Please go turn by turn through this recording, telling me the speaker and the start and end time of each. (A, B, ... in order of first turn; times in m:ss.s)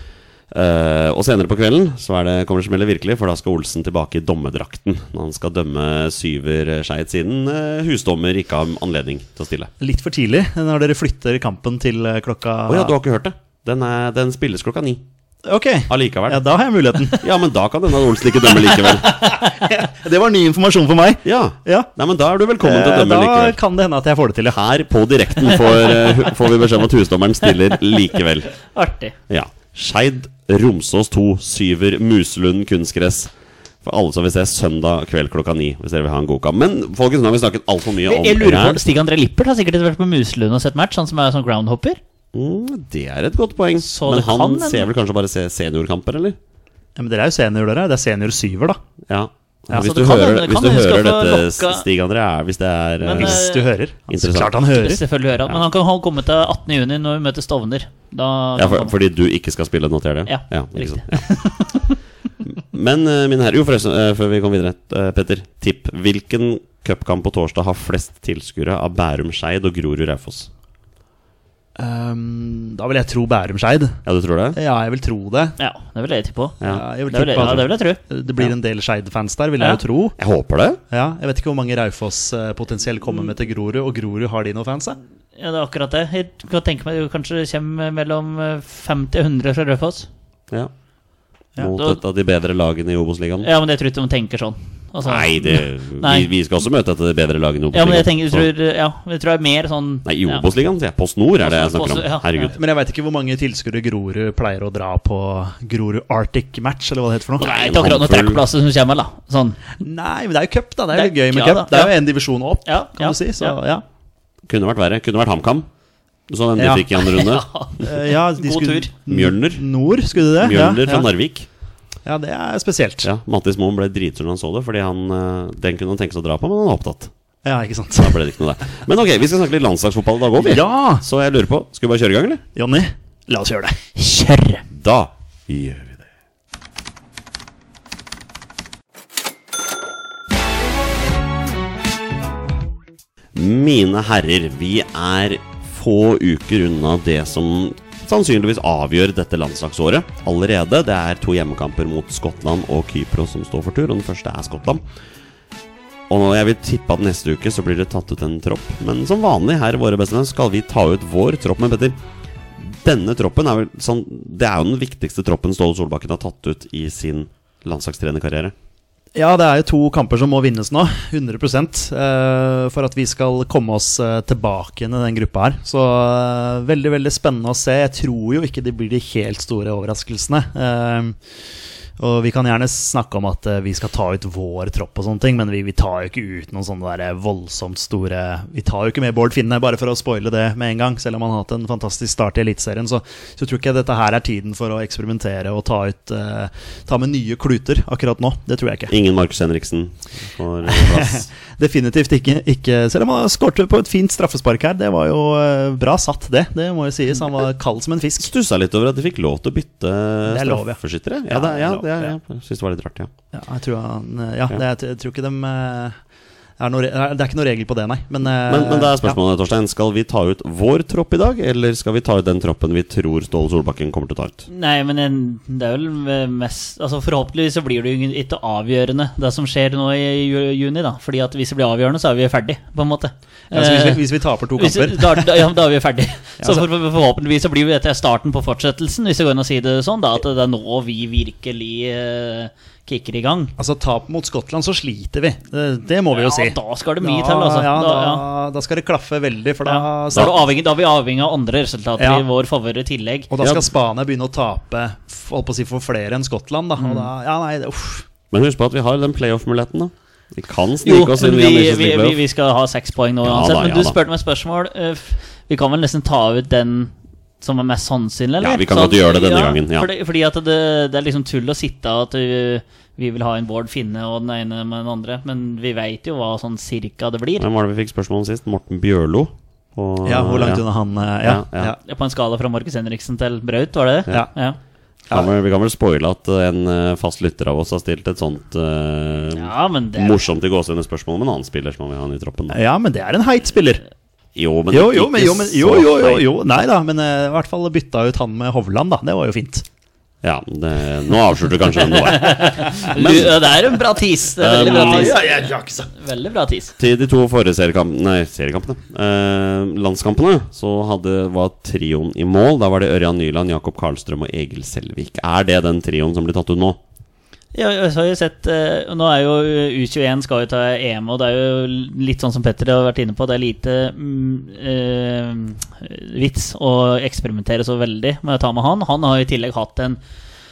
0:00.5-0:09.7 A
0:09.8-0:12.9 B
0:12.7-0:15.0 A
0:15.4-0:17.3 B
0:15.9-0:16.4 A
0:17.1-0:19.2 A
0:18.4-0:21.9 B
0:21.2-0:23.6 A
0:22.6-0:24.6 B
0:24.5-0:28.5 A
0:28.7-0:29.2 C
0:29.3-0:33.3 A
0:33.8-0:38.8 A
0:38.0-0:42.0 C
0:42.3-0:46.4 A
0:43.8-0:44.9 C
0:47.0-0:48.8 B
0:49.1-0:53.4 A
0:49.7-0:51.9 C
0:53.0-0:53.7 C
0:53.2-0:55.0 B
0:54.1-0:54.5 A
0:54.7-0:59.0 C
0:58.6-1:01.2 A
1:00.3-1:02.0 C
1:02.4-1:10.5 A
1:11.8-1:14.0 B
1:14.0-1:14.6 A
1:14.6-1:15.6 B
1:15.6-1:18.0 C
1:16.6-1:20.2 B
1:17.4-1:17.6 A
1:20.2-1:20.8 A
1:20.9-1:25.0 B
1:25.4-1:30.1 C
1:31.6-1:33.5 A
1:31.7-1:32.0 C
1:33.4-1:36.3 C
1:35.0-1:38.5 A
1:37.7-1:40.5 C
1:40.0-1:42.6 A
1:41.4-1:42.5 C
1:42.5-1:47.5 B
1:47.4-1:48.4 A
1:47.4-1:49.6 C
1:49.8-1:53.8 B
1:50.9-1:51.9 C
1:52.7-1:53.6 C
1:54.5-1:55.7 A
1:56.3-1:57.4 A
1:56.6-1:56.9 B
1:57.0-1:58.9 C
1:57.8-2:01.1 B
1:59.1-1:59.6 A
2:00.4-2:01.5 A
2:02.1-2:03.1 B
2:03.0-2:07.1 A
2:07.4-2:08.2 B
2:08.0-2:12.4 A
2:10.4-2:11.0 B
2:12.6-2:13.8 B
2:14.0-2:14.6 C
2:14.7-2:16.0 A
2:23.3-2:34.8 A
2:36.1-2:42.0 A
2:42.6-2:48.5 A
2:49.2-3:01.2 B
3:02.0-3:18.9 B
3:18.9-3:21.3 A
3:20.7-3:28.3 B
3:28.2-3:33.1 A
3:30.3-3:32.1 B
3:33.3-3:36.0 B
3:36.6-3:39.2 B
3:38.5-3:44.5 A
3:44.5-3:54.0 C
3:53.5-3:55.5 B
3:54.6-4:03.5 C
3:56.4-3:56.7 B
4:03.6-4:10.4 B
4:06.1-4:08.2 C
4:09.7-4:13.3 C
4:12.0-4:12.2 B
4:13.3-4:18.0 B
4:13.4-4:13.7 A
4:16.8-4:17.1 C
4:18.3-4:22.2 A
4:20.8-4:37.5 C
4:23.2-4:24.0 A
4:28.4-4:29.9 A
4:37.4-4:40.6 A
4:40.0-4:41.8 B
4:41.2-4:41.8 A
4:41.8-4:44.6 C
4:45.1-4:52.6 A
4:49.3-4:50.2 C
4:52.5-4:53.8 B
4:54.4-4:56.2 A
4:54.7-4:59.6 B
5:00.2-5:03.5 A
5:02.0-5:06.8 C
5:04.4-5:05.2 A
5:04.6-5:05.9 B
5:06.8-5:16.8 A
5:17.5-5:30.0 C